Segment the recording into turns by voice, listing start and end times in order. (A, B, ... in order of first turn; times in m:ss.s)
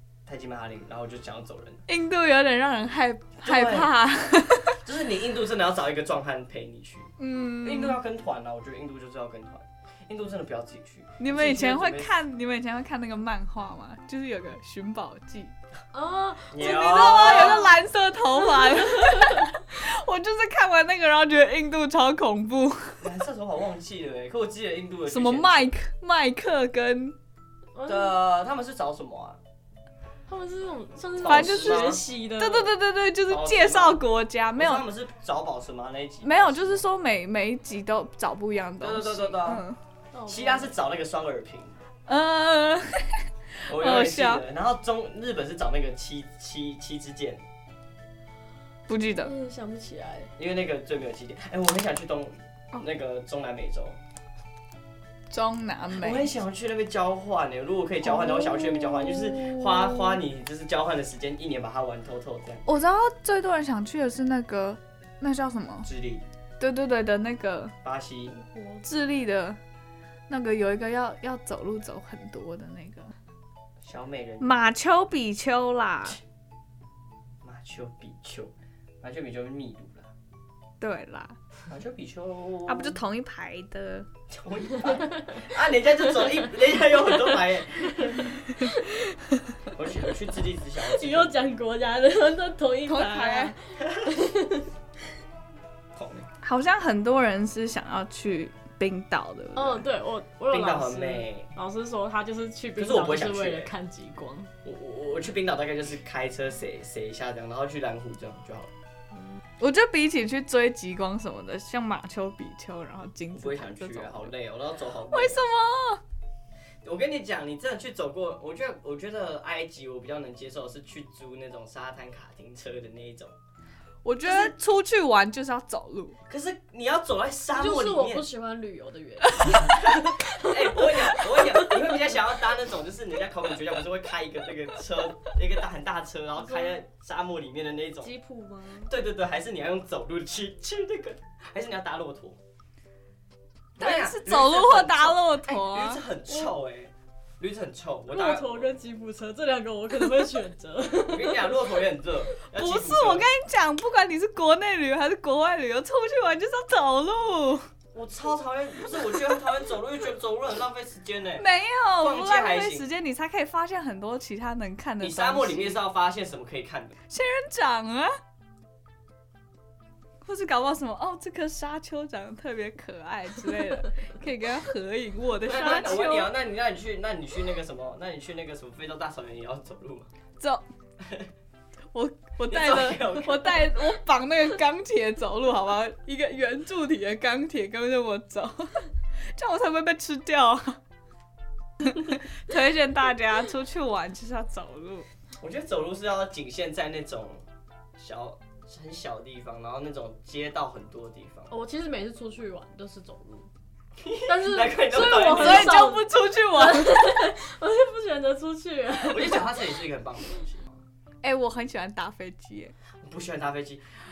0:00.3-0:01.8 A
0:01.9-0:04.8 B
0:03.4-0:03.9 A
0:04.8-0:07.1 A
0:07.2-0:08.0 B
0:07.6-0:12.1 A
0:11.2-0:15.6 B
0:15.9-0:17.7 C
0:16.5-0:17.7 A
0:16.6-0:23.0 B
0:18.6-0:19.5 C
0:23.0-0:25.7 A
0:25.1-0:27.2 B
0:27.7-0:28.2 C
0:27.9-0:29.4 A
0:30.3-0:32.7 C
0:31.2-0:32.0 A
0:31.3-0:34.8 B
0:33.3-0:34.0 A
0:34.6-0:36.8 A
0:36.2-0:39.8 B
0:38.8-0:39.6 A
0:40.1-0:40.7 C
0:40.3-0:41.8 A
0:42.1-0:44.4 B
0:43.7-0:47.4 A
0:48.9-0:49.3 B
0:49.0-0:50.3 C
0:50.4-0:54.0 A
0:55.3-0:56.3 B
0:55.9-1:02.6 A
0:58.1-1:00.2 C
1:02.7-1:05.9 B
1:05.8-1:06.2 A
1:06.6-1:07.7 B
1:07.8-1:08.4 A
1:08.4-1:08.8 C
1:08.8-1:09.6 B
1:10.3-1:13.1 B
1:13.8-1:14.5 A
1:14.4-1:16.2 B
1:17.4-1:20.1 A
1:20.8-1:21.4 B
1:21.6-1:23.0 A
1:22.7-1:24.1 B
1:24.3-1:28.4 A
1:24.8-1:25.5 C
1:27.0-1:28.9 C
1:29.7-1:31.4 A
1:30.8-1:34.7 C
1:32.9-1:33.6 B
1:33.8-1:34.2 A
1:36.0-1:36.3 A
1:36.4-1:39.9 B
1:39.6-1:44.5 C
1:40.5-1:41.5 A
1:42.8-1:43.7 A
1:44.6-1:48.7 A
1:49.1-1:49.4 C
1:49.6-1:54.3 B
1:53.3-1:55.4 A
1:55.1-1:56.0 B
1:56.8-2:03.4 A
2:04.0-2:06.2 B
2:04.2-2:04.5 A
2:06.3-2:08.3 A
2:07.5-2:11.7 C
2:09.6-2:18.1 A
2:16.4-2:16.8 C
2:18.0-2:18.9 C
2:18.8-2:22.4 A
2:23.8-2:26.0 B
2:23.8-2:28.7 A
2:28.1-2:31.7 C
2:31.0-2:33.3 A
2:32.6-2:37.7 B
2:37.9-2:41.4 A
2:41.4-2:45.8 B
2:42.0-2:42.9 A
2:45.0-2:47.0 A
2:47.1-2:48.1 B
2:50.2-2:56.3 B
2:55.4-3:00.1 A
3:01.0-3:01.3 A
3:01.9-3:10.8 B
3:02.5-3:03.9 A
3:11.8-3:15.1 B
3:15.4-3:17.4 A
3:18.0-3:21.5 A
3:21.5-3:23.5 C
3:24.0-3:25.9 A
3:24.3-3:29.7 C
3:25.3-3:27.1 B
3:29.0-3:30.8 A
3:31.2-3:32.7 B
3:33.0-3:33.9 A